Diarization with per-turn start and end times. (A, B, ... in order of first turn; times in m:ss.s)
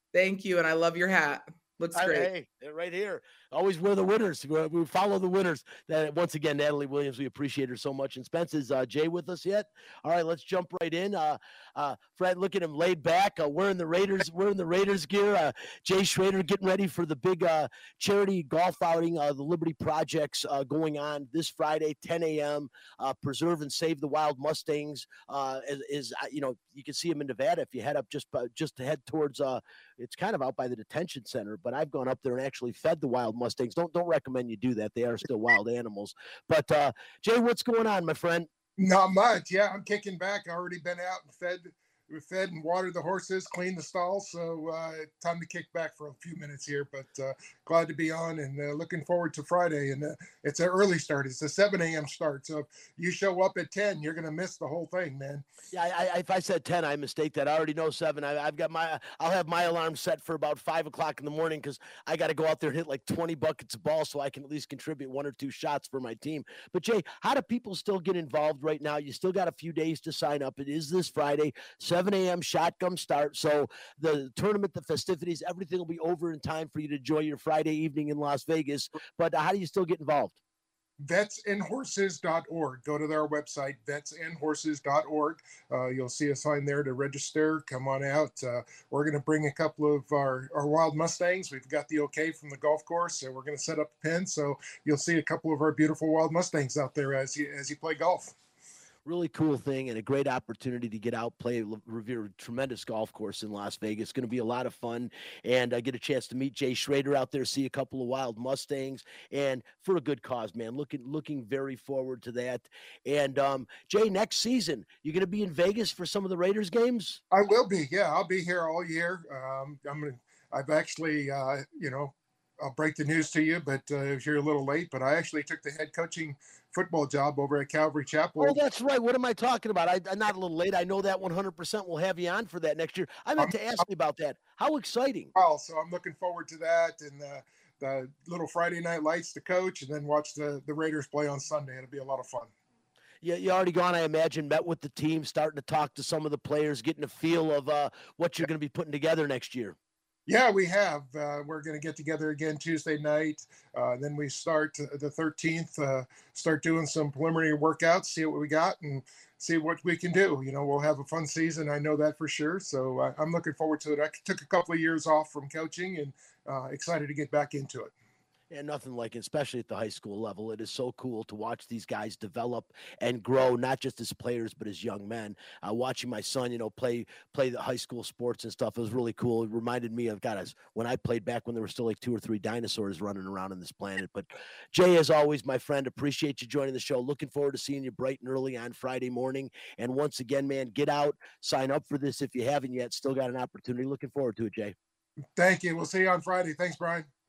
0:00.1-0:02.3 A
0:01.9-0:38.5 B
0:38.8-0:55.4 C
0:55.7-1:20.4 B
1:21.0-1:38.3 C
1:39.0-1:57.2 B
1:57.3-2:08.6 C
2:08.4-2:15.3 B
2:15.3-2:22.5 C
2:23.2-2:29.8 B
2:30.3-2:47.9 C
2:48.5-3:14.7 B
3:15.4-3:17.1 C